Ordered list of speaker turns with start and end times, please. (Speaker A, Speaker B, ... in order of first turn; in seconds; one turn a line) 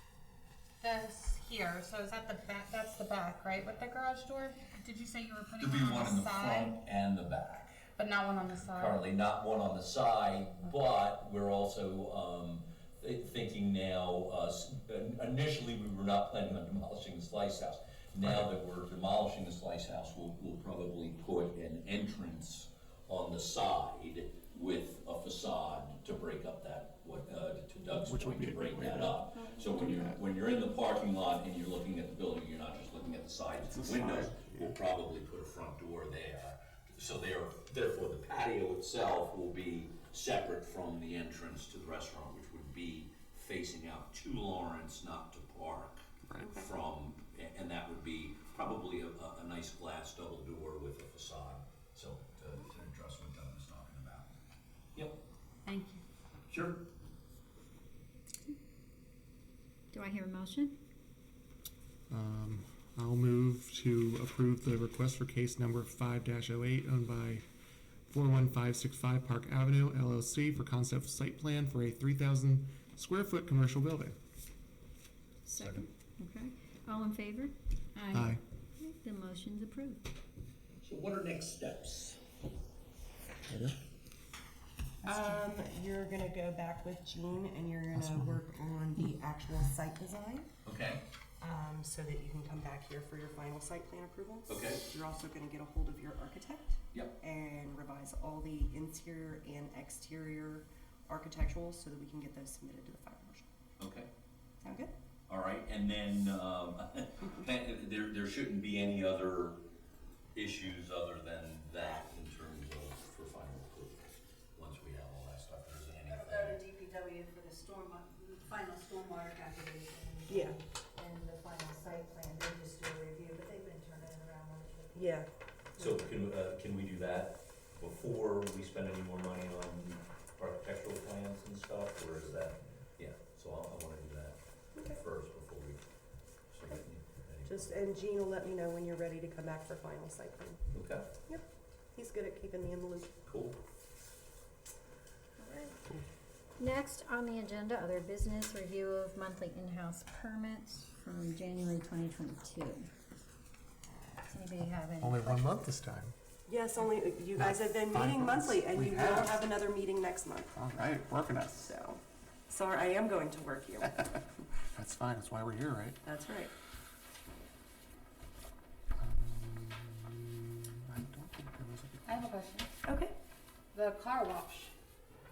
Speaker A: 0.8-6.8
Speaker B: 5.6-7.8
Speaker A: 8.0-9.1
Speaker B: 8.5-54.3
Speaker C: 18.2-18.5
Speaker C: 27.9-30.2
Speaker C: 33.7-34.8
Speaker D: 46.4-46.7
Speaker B: 54.9-55.2
Speaker A: 55.6-56.0
Speaker B: 56.5-56.9
Speaker E: 59.9-60.8
Speaker C: 62.1-67.5
Speaker C: 68.1-74.2
Speaker E: 75.5-80.1
Speaker B: 75.6-75.9
Speaker C: 78.1-78.4
Speaker B: 80.8-82.2
Speaker D: 85.0-90.5
Speaker A: 85.0-85.4
Speaker C: 88.0-88.4
Speaker B: 90.7-91.0
Speaker D: 91.4-103.5
Speaker B: 94.5-94.8
Speaker B: 103.8-104.1
Speaker D: 104.6-104.9
Speaker B: 105.3-109.6
Speaker B: 110.3-116.6
Speaker F: 116.1-125.0
Speaker D: 120.3-120.6
Speaker D: 124.9-125.3
Speaker B: 125.8-135.8
Speaker D: 134.8-135.0
Speaker B: 136.5-137.8
Speaker D: 137.4-140.6
Speaker B: 140.7-141.1
Speaker D: 141.2-143.1
Speaker B: 143.3-143.6
Speaker E: 145.4-145.8
Speaker E: 146.6-152.9
Speaker E: 154.3-155.7
Speaker C: 155.0-156.1
Speaker D: 156.5-160.5
Speaker C: 157.4-159.5
Speaker C: 160.5-161.7
Speaker D: 161.6-164.1
Speaker C: 163.8-166.0
Speaker D: 166.0-166.5
Speaker C: 169.0-172.2
Speaker A: 172.1-172.7
Speaker D: 172.8-173.1
Speaker A: 173.7-174.7